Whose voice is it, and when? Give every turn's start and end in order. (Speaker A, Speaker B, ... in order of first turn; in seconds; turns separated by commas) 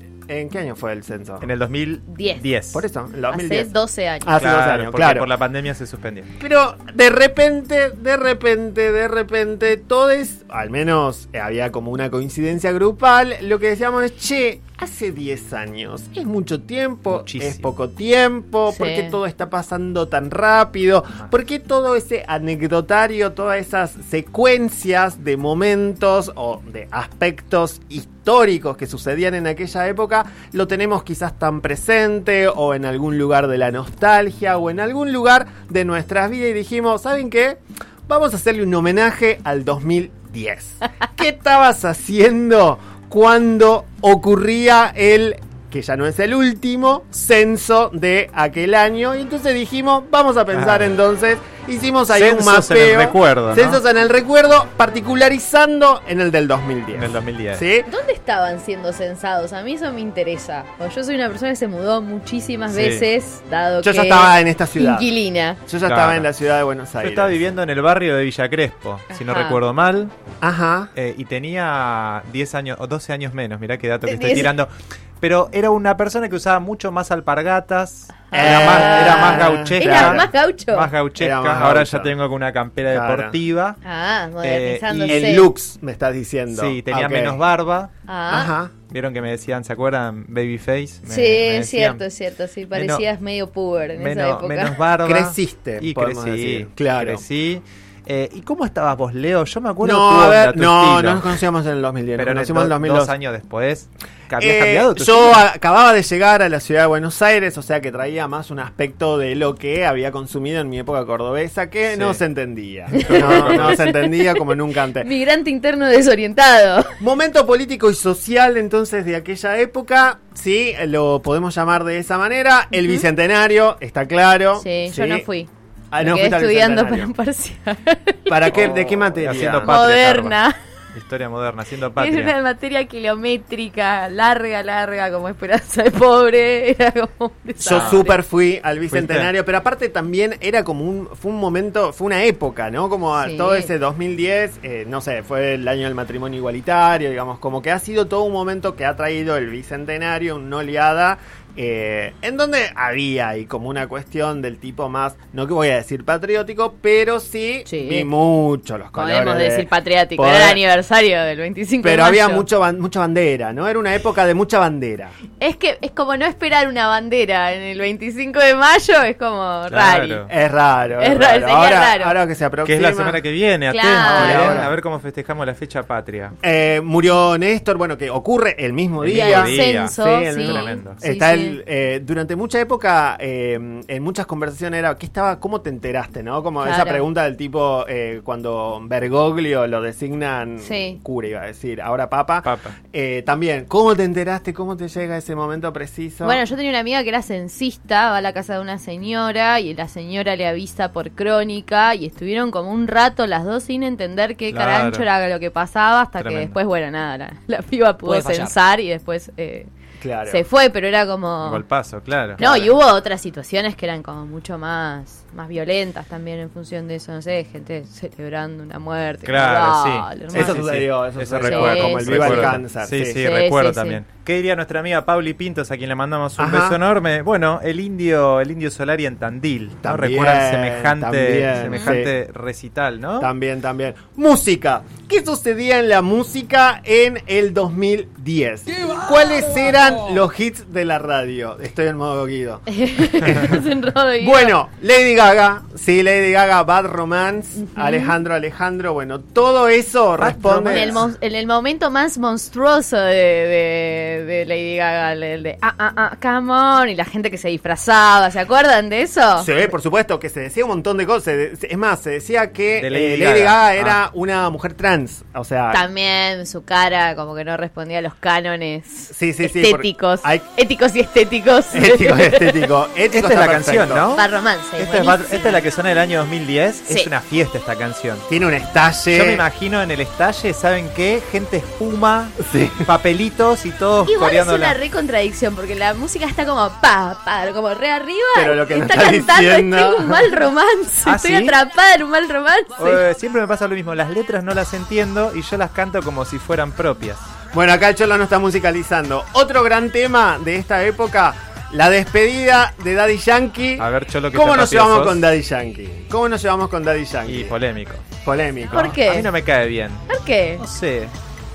Speaker A: 0.3-1.5, Speaker B: 1.4-2.8, Speaker C: 2.1-2.4, Speaker A: 2.7-3.7, Speaker C: 3.3-4.4, Speaker A: 4.2-5.3, Speaker B: 4.4-6.3, Speaker A: 6.4-57.9, Speaker B: 17.1-17.7, Speaker C: 18.7-19.2, Speaker B: 50.5-50.9, Speaker B: 52.1-53.8, Speaker B: 56.9-57.6, Speaker C: 57.9-65.6, Speaker B: 62.7-63.1, Speaker A: 63.8-65.1, Speaker A: 65.7-67.5, Speaker B: 65.8-66.3, Speaker B: 67.0-70.1, Speaker C: 69.1-69.6, Speaker A: 70.4-70.9, Speaker B: 71.0-83.8, Speaker C: 74.1-74.5, Speaker A: 78.3-80.3, Speaker C: 78.3-80.9, Speaker A: 81.2-82.1, Speaker A: 82.9-83.4, Speaker C: 83.8-85.5, Speaker B: 84.4-85.5, Speaker A: 85.1-87.4, Speaker B: 86.5-87.9, Speaker C: 88.1-88.5, Speaker A: 88.3-88.7, Speaker B: 88.9-92.0, Speaker C: 91.1-94.8, Speaker B: 92.7-93.0, Speaker B: 94.0-101.4, Speaker A: 95.0-97.2, Speaker A: 99.8-103.1, Speaker B: 102.2-105.4, Speaker A: 104.4-115.1, Speaker B: 111.9-112.2, Speaker C: 112.9-114.4, Speaker B: 113.0-113.8, Speaker C: 115.0-116.9, Speaker A: 117.0-125.2, Speaker C: 122.8-123.0, Speaker C: 124.6-130.6, Speaker A: 125.9-127.1, Speaker A: 128.3-129.8, Speaker B: 128.5-130.4, Speaker B: 130.9-132.3, Speaker C: 131.9-138.2, Speaker A: 137.6-160.6, Speaker B: 137.7-138.0, Speaker B: 138.9-139.3, Speaker C: 143.2-143.7, Speaker C: 157.7-158.1, Speaker C: 159.0-162.5, Speaker A: 161.8-165.2, Speaker C: 165.4-170.3, Speaker B: 169.7-170.3, Speaker A: 170.3-173.2, Speaker C: 171.0-172.2, Speaker B: 172.6-176.3, Speaker C: 173.7-174.7, Speaker A: 173.9-174.7, Speaker A: 176.4-196.4, Speaker B: 179.0-181.0, Speaker C: 179.1-181.6, Speaker C: 186.6-187.1, Speaker C: 190.6-191.0, Speaker B: 192.4-192.8, Speaker C: 196.2-209.7, Speaker B: 204.5-205.1, Speaker B: 206.2-206.6, Speaker B: 208.1-208.6, Speaker A: 210.0-210.4, Speaker C: 210.3-211.7, Speaker B: 211.4-212.4, Speaker A: 212.4-212.7, Speaker C: 212.4-220.7, Speaker B: 219.2-233.3, Speaker A: 220.3-223.2, Speaker C: 221.4-222.6, Speaker C: 223.2-224.0, Speaker A: 226.4-226.8, Speaker A: 229.8-232.1, Speaker C: 231.7-232.0, Speaker A: 233.2-242.7, Speaker C: 242.7-244.5, Speaker A: 243.3-243.6, Speaker A: 244.2-251.0, Speaker C: 247.7-248.2, Speaker B: 250.2-251.0, Speaker C: 250.7-259.5, Speaker A: 259.4-265.8, Speaker B: 262.8-264.0, Speaker C: 265.7-272.7, Speaker A: 269.1-270.5, Speaker A: 271.7-274.1, Speaker B: 273.1-278.3, Speaker C: 274.1-275.6, Speaker A: 278.3-279.4, Speaker B: 279.1-284.8, Speaker A: 282.4-282.9, Speaker C: 284.1-293.0, Speaker A: 288.4-290.3, Speaker B: 291.1-291.6, Speaker B: 292.8-297.2, Speaker A: 297.5-307.6, Speaker B: 303.8-305.3, Speaker B: 307.2-308.1, Speaker A: 308.2-309.0, Speaker C: 308.7-309.3, Speaker B: 308.9-310.0, Speaker C: 310.1-310.6, Speaker B: 310.6-311.1